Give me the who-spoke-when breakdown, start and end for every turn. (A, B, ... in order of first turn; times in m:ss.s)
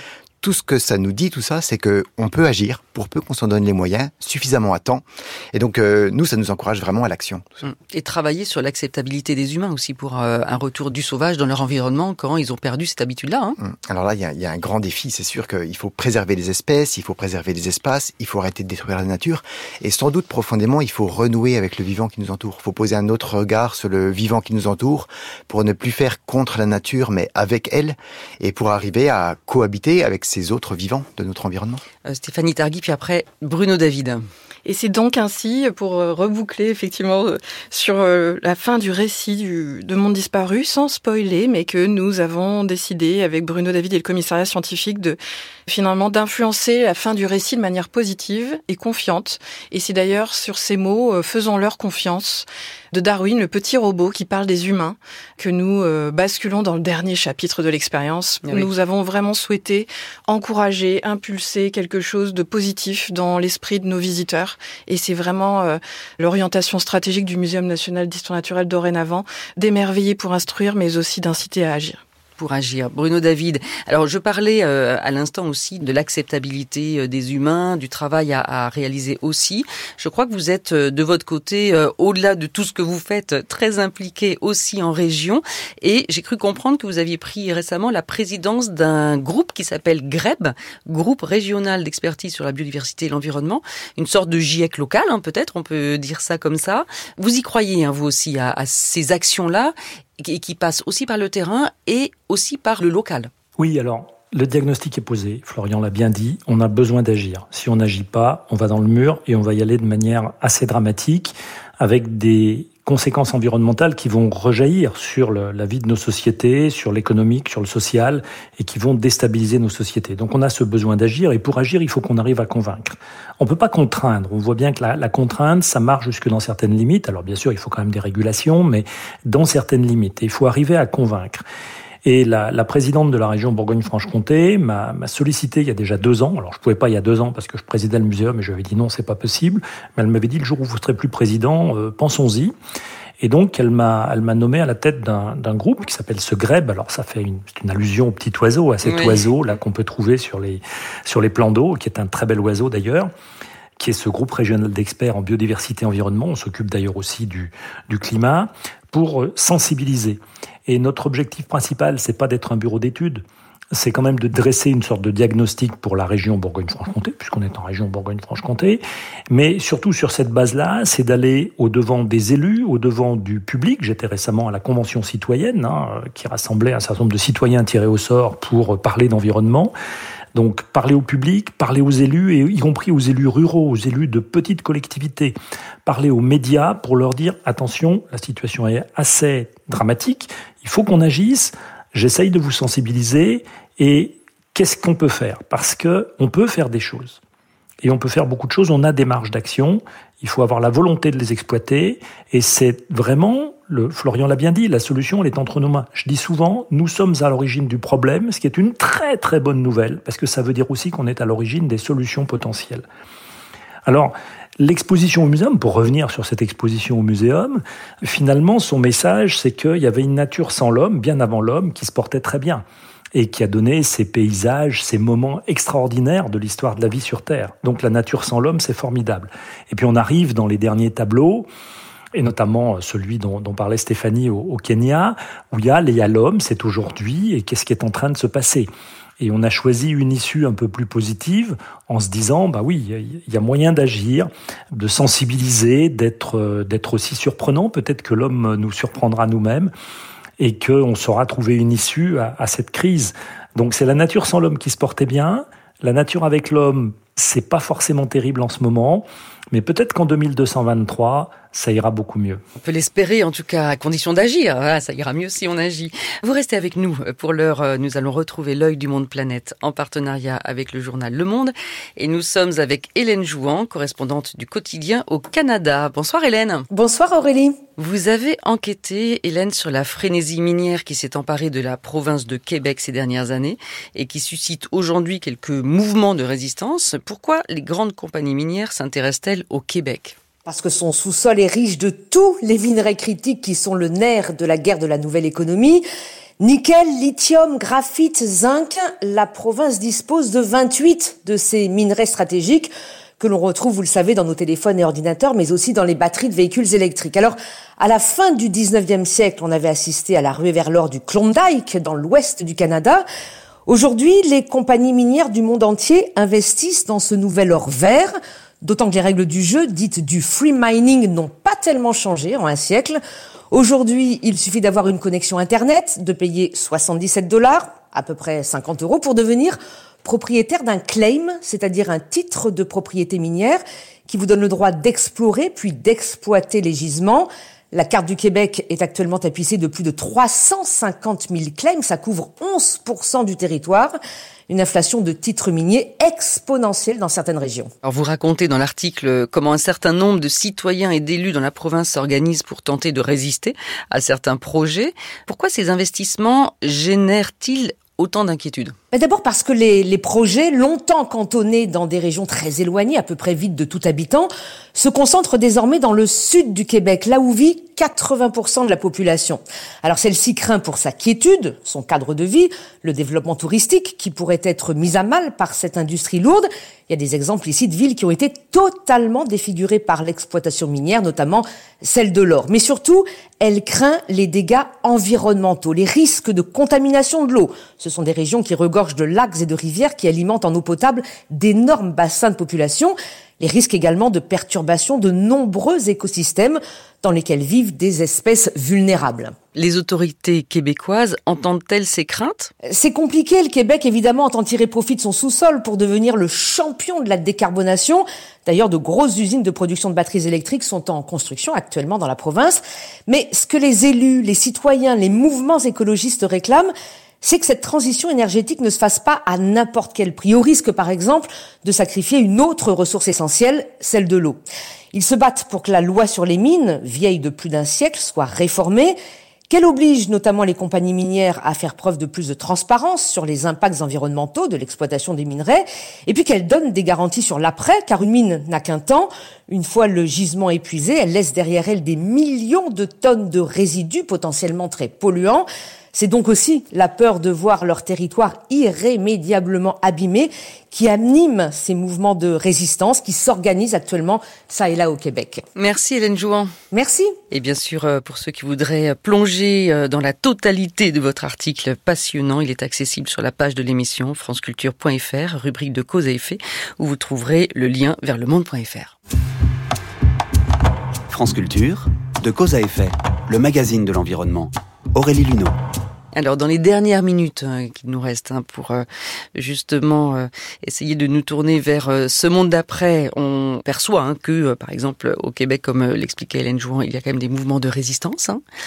0:00.4-0:07.6 A
0:07.6-0:13.6 B
0:13.6-0:31.8 A
0:32.0-0:34.3 B
0:34.6-1:12.0 C
0:58.4-0:58.7 B
1:12.4-1:43.3 B
1:43.6-2:11.4 D
2:12.0-2:22.5 D
2:23.2-2:33.1 D
2:28.8-2:29.2 B
2:33.8-2:59.7 D
3:00.3-3:17.2 D
3:17.8-3:32.8 D
3:33.8-3:42.6 D
3:43.1-3:51.5 D
3:52.1-3:58.7 D
3:59.2-4:09.7 D
4:10.4-4:22.4 D
4:22.6-4:36.6 B
4:36.7-4:37.6 E
4:37.8-4:50.2 B
4:50.4-4:55.8 E
4:56.4-5:13.0 E
5:13.7-5:44.0 E
5:44.5-5:47.7 E
5:47.8-5:58.7 B
5:58.9-6:39.3 E
6:39.5-6:42.5 B
6:42.7-7:04.4 E
7:04.9-7:09.0 E
7:09.5-7:35.4 E
7:35.6-7:36.5 B
7:36.7-7:37.2 E
7:37.3-7:48.9 B
7:51.1-7:55.6 F
7:56.1-8:08.4 B